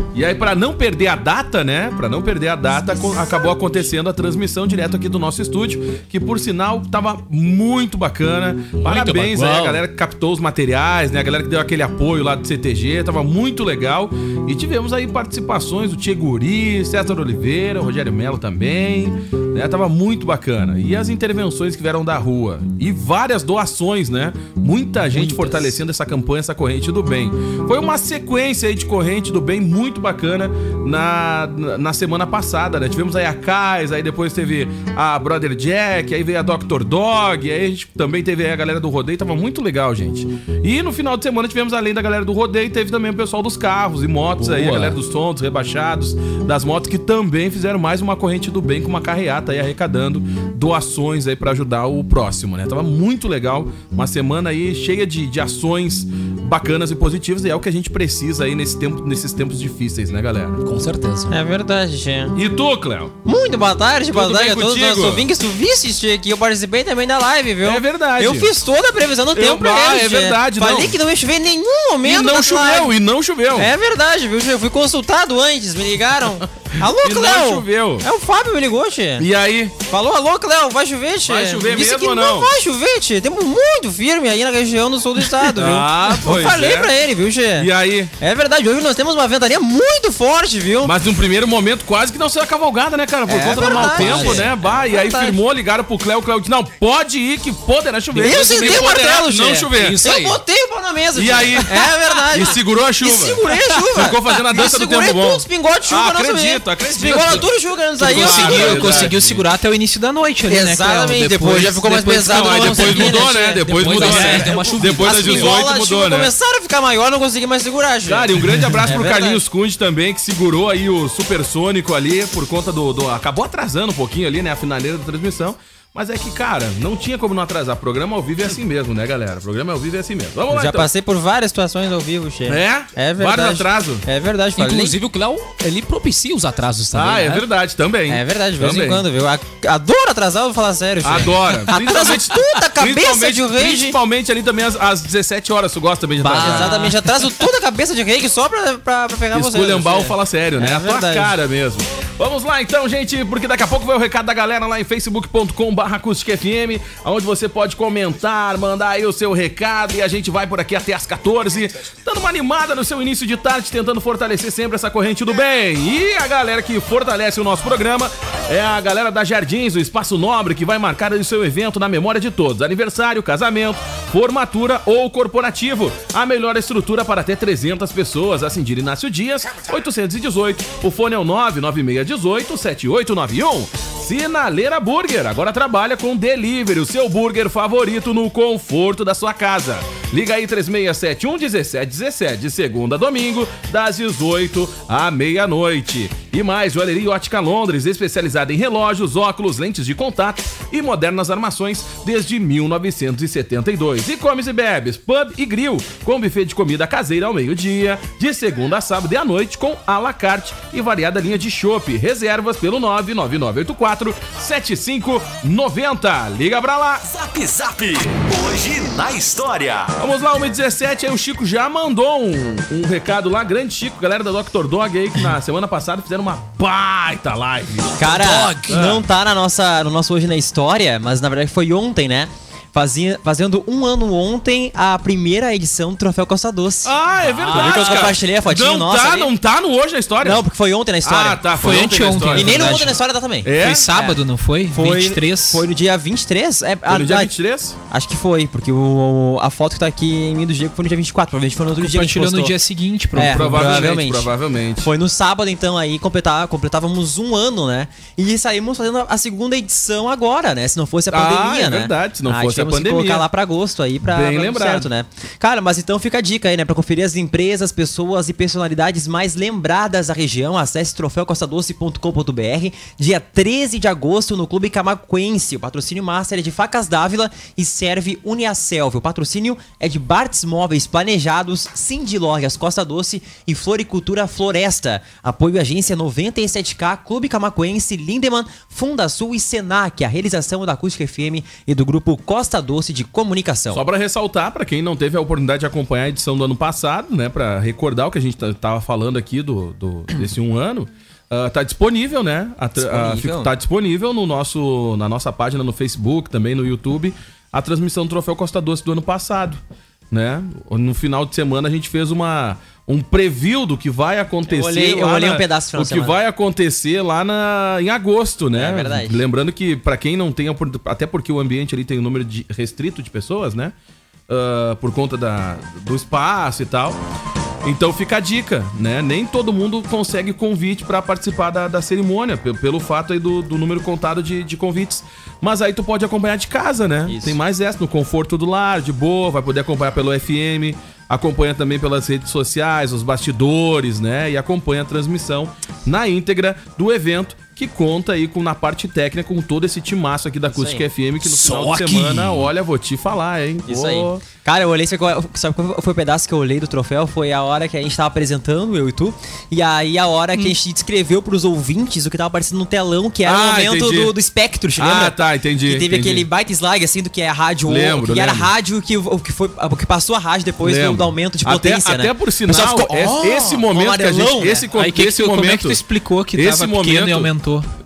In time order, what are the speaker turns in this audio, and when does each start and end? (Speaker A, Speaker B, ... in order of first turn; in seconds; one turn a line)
Speaker A: 0.1-60.6
Speaker B: 8.8-9.8
Speaker B: 25.1-25.8
Speaker B: 44.4-45.0
Speaker B: 60.6-61.4
Speaker C: 61.3-62.4
Speaker A: 62.4-63.1
Speaker C: 63.2-72.9
Speaker A: 64.1-65.3
Speaker A: 67.6-68.5
Speaker A: 69.3-71.0
Speaker A: 72.0-73.7
Speaker C: 73.6-79.3
Speaker A: 76.8-78.1
Speaker A: 79.2-79.8
Speaker C: 79.9-91.0
Speaker A: 81.3-82.5
Speaker A: 85.4-86.9
Speaker A: 87.6-88.1
Speaker A: 90.8-100.1
Speaker C: 93.3-95.4
Speaker B: 93.6-94.5
Speaker B: 98.2-99.0
Speaker C: 98.2-109.1
Speaker B: 99.7-100.4
Speaker A: 101.2-109.4
Speaker D: 108.0-113.2
Speaker C: 110.5-119.4
Speaker A: 112.1-116.3
Speaker B: 113.7-115.6
Speaker A: 118.1-130.9
Speaker C: 130.5-135.0
Speaker A: 132.5-134.1
Speaker B: 134.6-137.4
Speaker A: 136.9-139.1
Speaker C: 138.1-144.0
Speaker A: 141.0-146.9
Speaker B: 146.2-147.0
Speaker C: 146.3-151.3
Speaker A: 149.3-217.1
Speaker E: 217.1-219.9
Speaker A: 220.0-228.0
Speaker C: 228.0-236.9
Speaker B: 228.0-228.7
Speaker A: 228.7-229.1
Speaker A: 236.8-240.4
Speaker B: 237.2-238.2
Speaker C: 237.5-239.3
Speaker C: 240.2-241.4
Speaker A: 241.0-242.9
Speaker D: 241.6-242.9
Speaker C: 242.3-244.2
Speaker A: 243.4-243.9
Speaker D: 243.5-245.7
Speaker C: 244.7-247.3
Speaker A: 246.8-247.8
Speaker C: 247.9-252.5
Speaker D: 251.8-253.8
Speaker A: 253.2-254.9
Speaker C: 253.2-293.8
Speaker A: 261.1-263.3
Speaker A: 264.0-264.9
Speaker A: 293.7-309.6
Speaker C: 302.8-303.5
Speaker A: 310.1-323.7
Speaker C: 314.5-316.2
Speaker C: 318.5-319.2
Speaker A: 324.3-327.0
Speaker A: 327.6-354.3
Speaker C: 337.1-337.4
Speaker C: 350.5-350.8
Speaker B: 351.2-352.5
Speaker C: 353.7-374.7
Speaker A: 363.2-364.1
Speaker A: 364.8-366.3
Speaker A: 367.6-368.5
Speaker A: 370.6-375.8
Speaker D: 374.7-377.7
Speaker A: 376.4-377.3